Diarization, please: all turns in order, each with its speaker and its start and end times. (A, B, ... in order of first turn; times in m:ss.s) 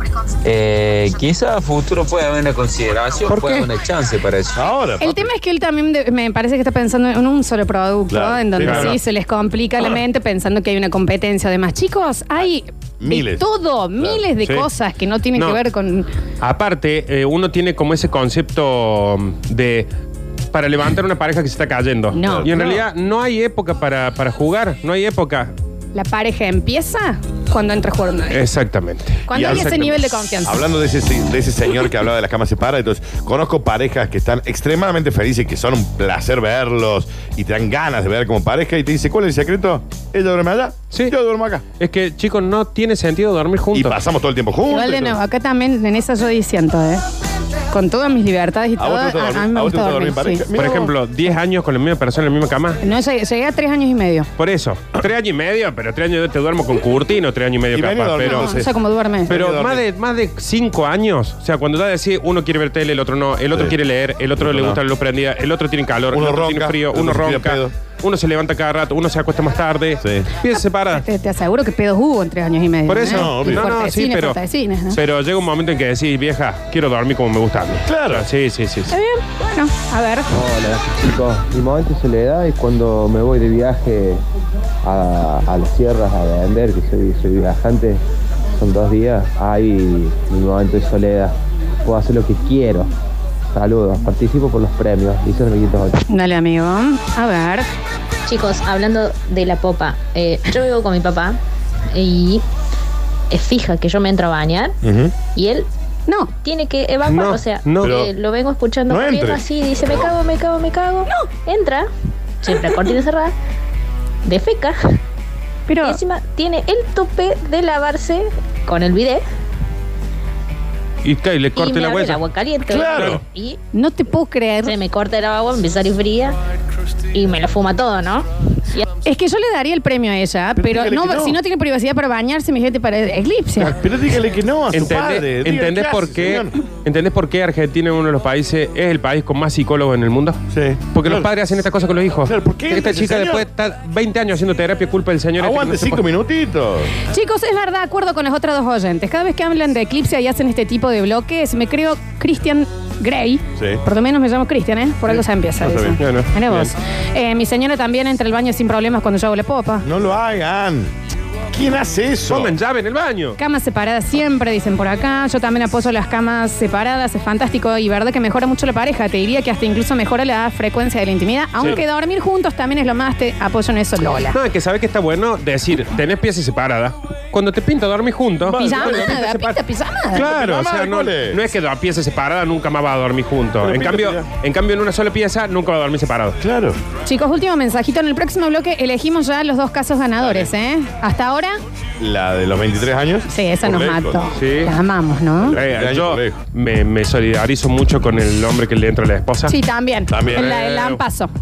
0:00.4-0:04.7 A
0:03.3-0:03.7 B
0:04.6-0:05.3 C
0:05.0-0:16.1 D
0:08.1-0:09.0 C
0:08.6-0:09.0 B
0:13.0-0:13.4 C
0:14.4-0:14.7 B
0:16.4-0:19.9 B
0:20.5-0:25.5 B
0:22.1-0:22.8 D
0:22.2-0:22.5 C
0:25.9-0:28.4 D
0:28.3-0:29.9 B
0:29.3-0:30.6 D
0:29.3-0:41.6 C
0:41.8-0:44.0 B
0:43.7-0:45.2 C
0:44.7-0:47.0 D
0:47.7-0:50.8 D
0:48.8-0:50.9 C
0:50.6-0:52.8 B
0:52.8-0:54.3 D
0:54.4-0:58.5 B
0:57.7-0:58.7 C
0:58.2-0:59.4 D
0:59.3-0:59.8 C
0:59.3-1:11.0 B
1:04.4-1:04.8 C
1:06.1-1:07.7 C
1:10.0-1:10.3 C
1:10.9-1:15.0 D
1:12.9-1:14.4 B
1:13.0-1:13.6 C
1:14.9-1:18.9 B
1:17.9-1:18.2 C
1:18.9-1:20.3 D
1:20.4-1:24.2 E
1:24.8-1:28.0 E
1:28.6-1:31.3 E
1:31.8-1:32.9 E
1:33.6-1:35.9 E
1:36.1-1:37.7 D
1:38.3-1:41.4 F
1:41.9-1:42.4 F
1:43.3-1:44.8 F
1:44.8-1:45.2 C
1:45.3-1:45.7 F
1:46.4-1:51.9 F
1:47.1-1:48.0 B
1:47.8-1:48.1 C
1:48.9-1:49.4 C
1:52.4-1:53.3 F
1:54.2-1:55.0 F
1:55.7-1:56.0 D
1:55.8-1:59.2 F
2:01.0-2:02.2 B
2:01.6-2:03.6 F
2:02.7-2:03.2 C
2:02.9-2:03.2 B
2:03.7-2:04.7 D
2:04.6-2:06.4 F
2:07.1-2:08.9 F
2:09.0-2:13.8 D
2:10.6-2:11.4 C
2:13.6-2:16.5 C
2:14.7-2:20.4 B
2:20.5-2:21.3 C
2:20.9-2:26.0 B
2:22.3-2:23.4 C
2:25.4-2:26.9 C
2:27.1-2:39.8 D
2:35.1-2:36.0 C
2:36.0-2:36.7 B
2:39.8-2:40.9 C
2:41.5-2:42.5 C
2:42.3-2:43.4 B
2:43.4-2:54.4 D
2:54.3-2:59.5 B
2:58.5-2:59.2 C
2:58.6-3:00.3 D
3:00.2-3:06.4 B
3:00.2-3:01.4 C
3:03.6-3:04.2 C
3:06.4-3:06.8 C
3:07.0-3:11.6 D
3:10.2-3:10.5 C
3:12.0-3:14.2 C
3:13.3-3:15.6 D
3:14.4-3:14.7 B
3:15.4-3:16.4 C
3:15.6-3:19.5 B
3:19.5-3:21.3 D
3:20.1-3:20.5 C
3:20.3-3:21.0 B